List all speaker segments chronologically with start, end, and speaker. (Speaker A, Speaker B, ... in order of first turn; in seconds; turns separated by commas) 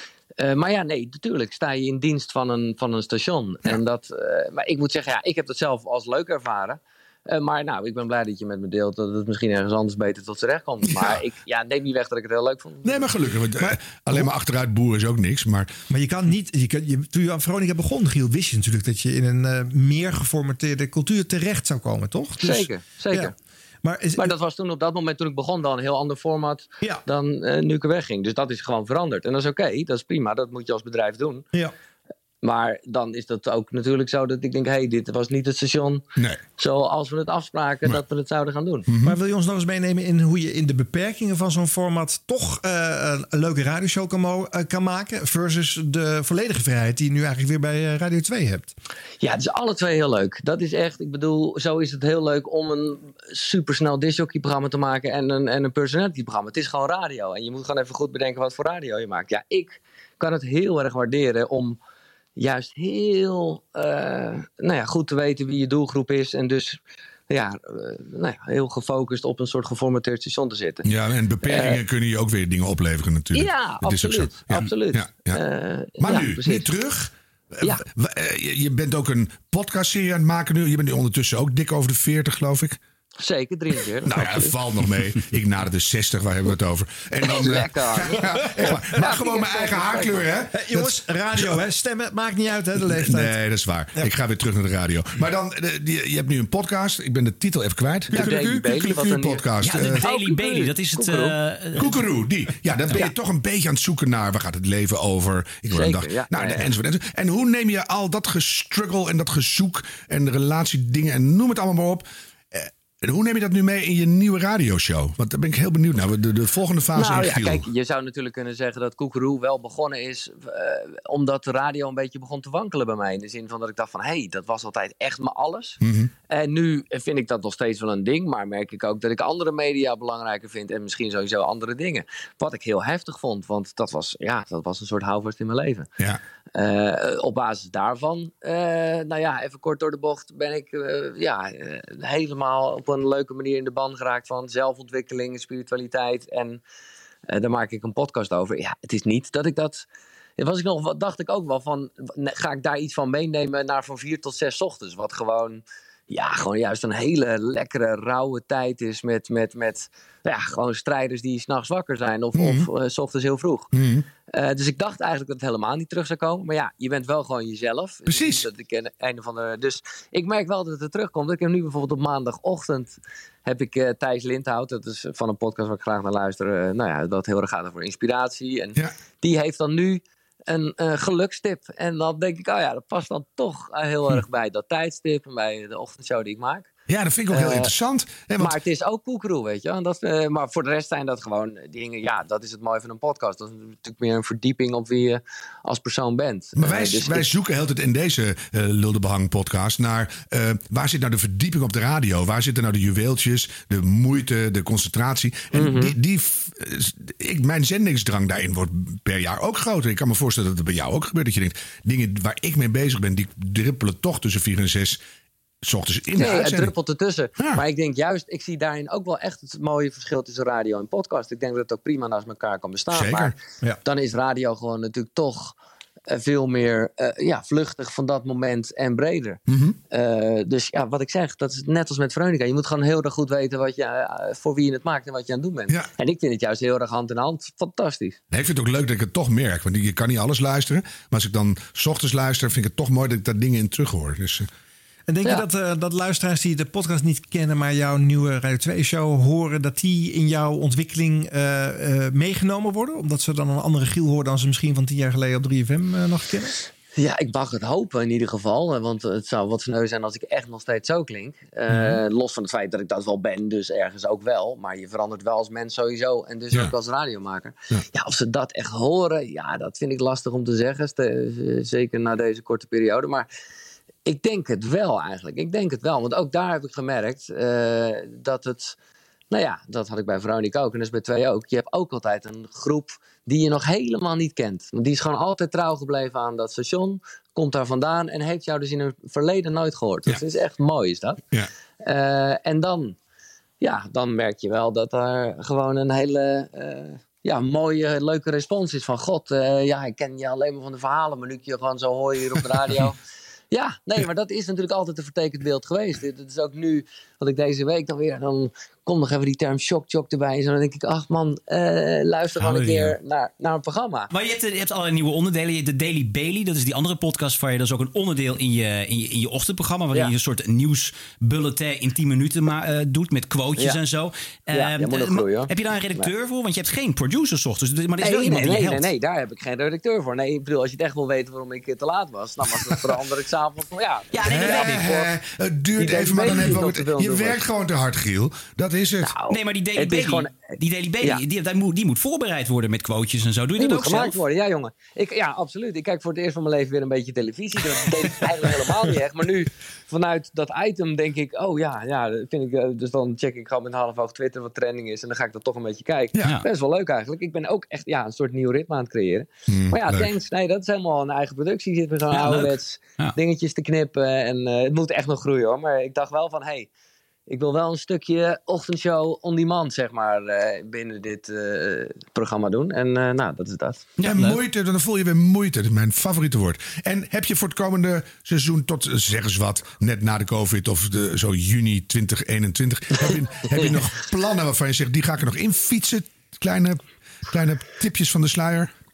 Speaker A: 0.4-13.1, Speaker B: 10.8-11.2, Speaker B: 12.8-15.7, Speaker C: 13.6-14.3, Speaker C: 15.9-24.3, Speaker A: 22.4-23.3, Speaker A: 24.2-31.4, Speaker A: 32.4-36.0, Speaker A: 36.6-38.8, Speaker B: 38.9-39.1, Speaker C: 39.0-48.7, Speaker A: 49.2-61.8, Speaker A: 62.4-70.8, Speaker B: 70.8-75.4, Speaker A: 71.4-71.8, Speaker A: 73.3-76.7, Speaker B: 76.0-82.8, Speaker A: 83.2-84.5, Speaker B: 84.0-91.6, Speaker A: 87.2-90.2, Speaker C: 90.5-93.3, Speaker B: 92.8-100.0, Speaker A: 98.1-101.8, Speaker D: 99.6-101.8, Speaker B: 101.8-117.7, Speaker A: 105.7-106.7, Speaker A: 116.9-125.8, Speaker B: 125.8-126.1, Speaker A: 126.3-135.9, Speaker A: 136.5-146.6, Speaker A: 147.3-149.8, Speaker A: 150.4-163.7, Speaker B: 162.3-162.7, Speaker B: 163.7-164.0, Speaker A: 164.3-186.7, Speaker B: 168.1-168.5, Speaker B: 186.9-188.6, Speaker A: 187.3-187.7, Speaker A: 188.4-197.3, Speaker B: 196.6-215.0, Speaker A: 205.5-205.9, Speaker B: 215.6-216.7, Speaker A: 216.1-223.3, Speaker B: 222.9-223.3, Speaker A: 223.8-225.5, Speaker A: 226.1-229.4, Speaker B: 229.5-229.8, Speaker A: 229.9-238.2, Speaker B: 238.3-244.5, Speaker C: 245.1-256.6, Speaker A: 256.9-273.3, Speaker B: 261.7-262.0, Speaker A: 274.1-278.8, Speaker A: 279.3-291.2, Speaker A: 291.8-292.9, Speaker A: 293.6-302.9, Speaker A: 303.5-314.1, Speaker D: 312.4-312.9, Speaker D: 314.1-328.9, Speaker A: 324.5-326.1, Speaker A: 328.0-335.1, Speaker D: 334.1-334.8, Speaker B: 334.2-339.1, Speaker A: 335.8-337.4, Speaker A: 339.0-340.3, Speaker D: 339.3-344.2, Speaker A: 343.6-366.7, Speaker B: 359.5-360.1, Speaker D: 362.1-363.1, Speaker A: 367.3-373.9, Speaker D: 374.0-374.4, Speaker B: 374.0-388.7, Speaker A: 382.9-383.8